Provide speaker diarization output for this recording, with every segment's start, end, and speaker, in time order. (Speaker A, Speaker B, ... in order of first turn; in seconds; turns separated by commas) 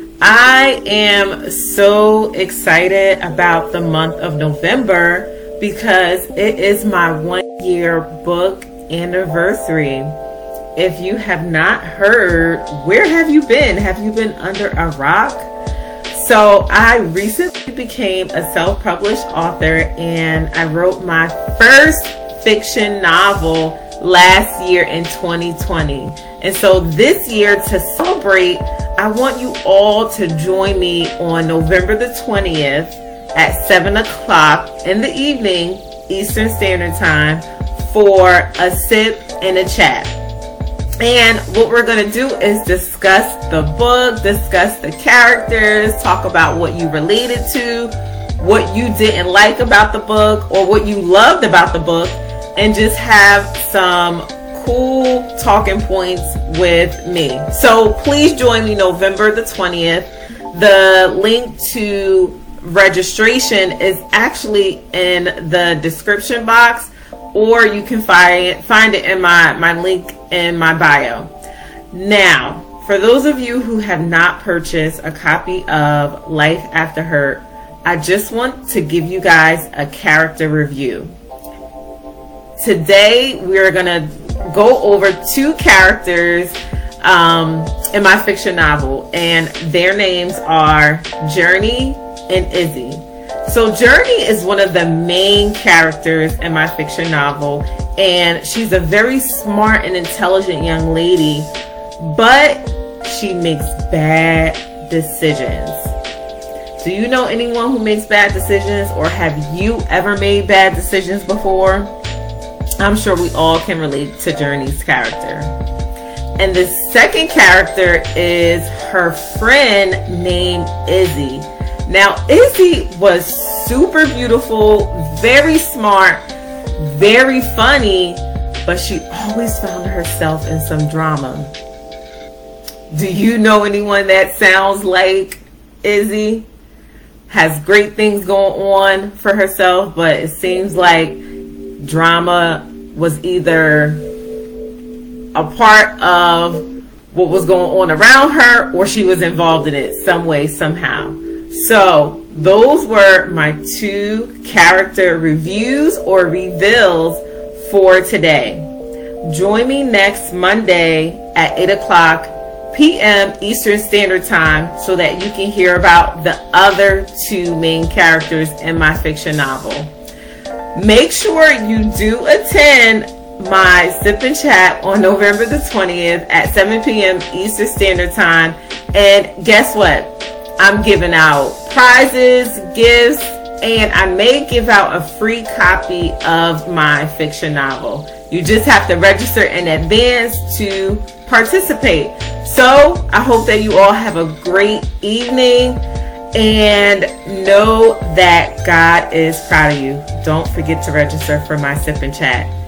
Speaker A: 0.2-10.1, Speaker A: 10.8-15.5, Speaker A: 16.1-40.1, Speaker A: 41.0-71.3, Speaker A: 71.9-81.1, Speaker A: 82.6-105.9, Speaker A: 106.8-111.9, Speaker A: 112.8-115.5, Speaker A: 116.4-126.2, Speaker A: 126.8-131.5, Speaker A: 132.9-136.5, Speaker A: 137.3-141.2, Speaker A: 141.8-144.0, Speaker A: 145.3-158.7, Speaker A: 159.2-169.9, Speaker A: 170.7-195.8, Speaker A: 196.3-202.5